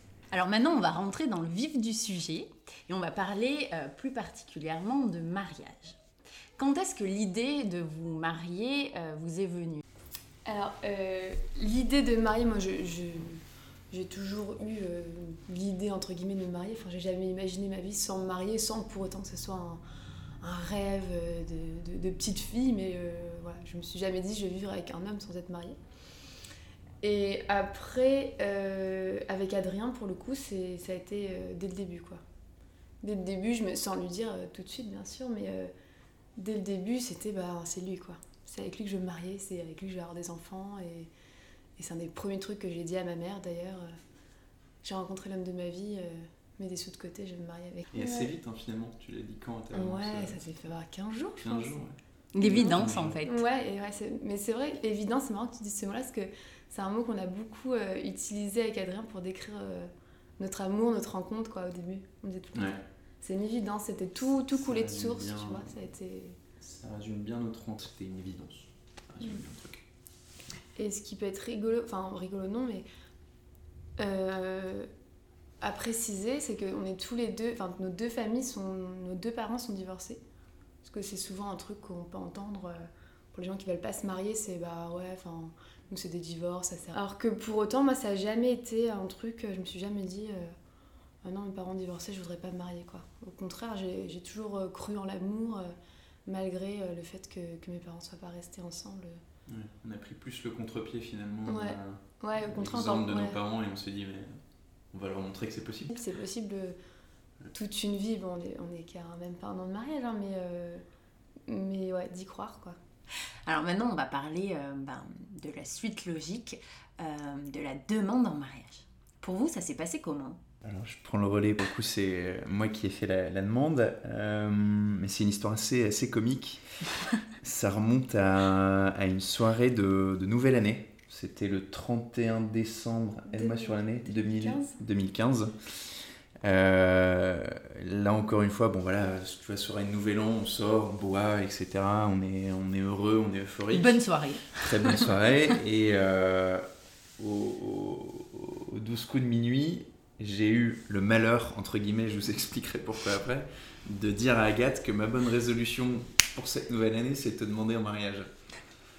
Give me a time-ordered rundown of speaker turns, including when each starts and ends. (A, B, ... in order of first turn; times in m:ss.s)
0:00.3-0:06.0 A
0:06.6-0:09.8 A
0:10.4-0:19.8 B
0:20.4-0:25.8 B
0:27.0-0:32.2 B
0:33.0-0:35.7 B
0:36.4-0:41.1 B
0:41.8-0:43.9 B
0:44.8-0:48.3 B
0:47.9-0:50.5 C
0:49.7-0:51.7 B
0:51.4-0:52.0 C
0:52.3-0:53.4 A
0:52.4-1:06.4 B
0:52.5-0:53.2 C
1:02.6-1:02.8 C
1:04.5-1:05.7 C
1:06.6-1:09.8 C
1:10.8-1:12.9 B
1:14.0-1:14.9 B
1:15.6-1:20.2 B
1:20.8-1:30.6 B
1:31.2-1:35.7 B
1:36.3-1:39.2 B
1:39.5-1:44.4 C
1:41.5-1:43.4 B
1:44.9-1:46.0 C
1:45.9-1:46.8 B
1:47.5-1:50.8 B
1:51.5-1:52.8 B
1:53.5-2:00.4 A
2:00.6-2:06.6 C
2:07.4-2:15.6 C
2:13.3-2:14.8 B
2:16.4-2:26.6 C
2:23.7-2:25.1 A
2:27.2-2:38.3 C